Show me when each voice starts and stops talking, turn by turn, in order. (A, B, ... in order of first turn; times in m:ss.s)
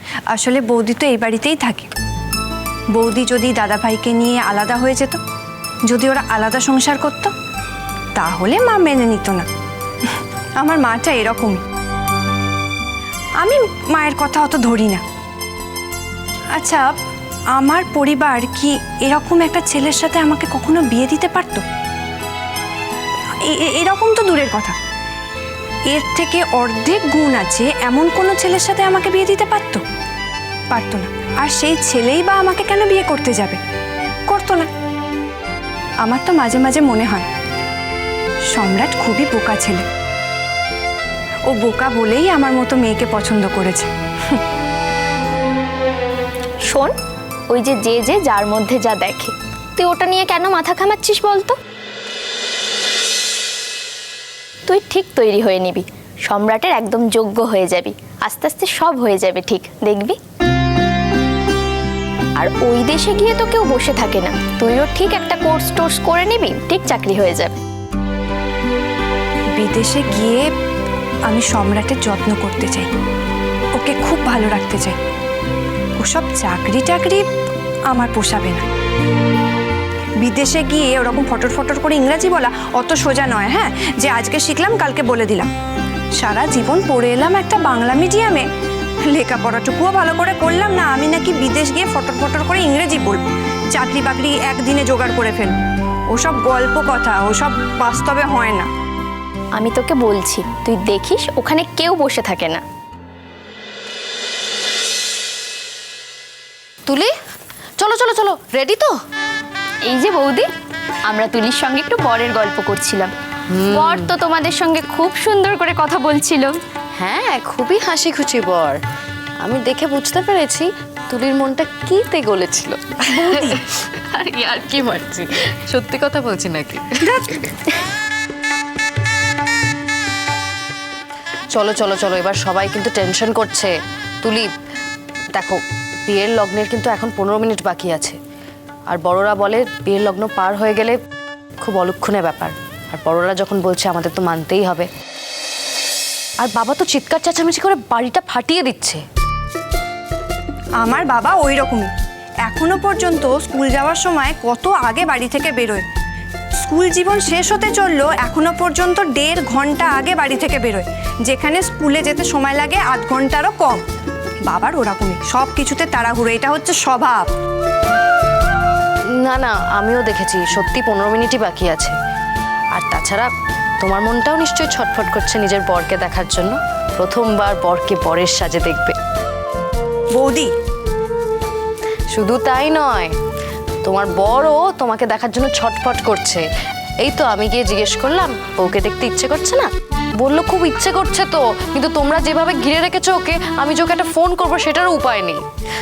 0:00.3-0:01.9 A
0:02.9-0:05.2 A
0:05.9-0:07.3 A
0:08.2-0:09.5 A
0:10.6-0:11.6 A
0:13.4-0:15.0 A
0:16.5-0:17.0 A
0:17.5-0:21.6 A
0:23.4-0:24.8 A
0:25.9-0:29.8 A
0:30.7-0:33.6 A
0:34.3-0:34.7 A
0:36.0-0:37.3 A
0:38.5-0:39.8 A
0:41.5-0:44.4 A
0:46.6-0:46.9 B
0:47.5-0:51.6 B
0:54.7-1:00.2 B
1:02.4-1:07.6 B
1:09.6-1:10.5 A
1:11.3-1:12.9 A
1:13.7-1:15.0 A
1:16.0-1:17.2 A
1:17.9-1:18.6 A
1:20.2-1:25.5 A
1:26.2-1:28.4 A
1:29.0-1:35.6 A
1:36.1-1:38.7 A
1:39.5-1:42.6 B
1:46.8-1:47.1 C
1:47.8-1:48.9 C
1:49.9-1:50.5 B
1:51.1-1:53.1 B
1:53.5-1:54.1 C
1:53.7-1:56.6 B
1:57.0-1:58.8 C
1:59.4-2:07.5 C
2:03.1-2:03.6 A
2:07.0-2:07.4 A
2:11.5-2:14.5 C
2:15.3-2:18.2 C
2:18.9-2:21.0 C
2:21.6-2:24.9 C
2:26.4-2:29.0 C
2:30.8-2:31.9 A
2:32.4-2:35.8 A
2:36.6-2:43.8 A
2:44.5-2:47.3 A
2:49.2-2:51.9 C
2:52.7-2:53.3 C
2:53.8-2:59.0 C
3:00.1-3:00.5 A
3:02.1-3:03.1 C
3:03.8-3:06.4 C
3:07.0-3:15.4 C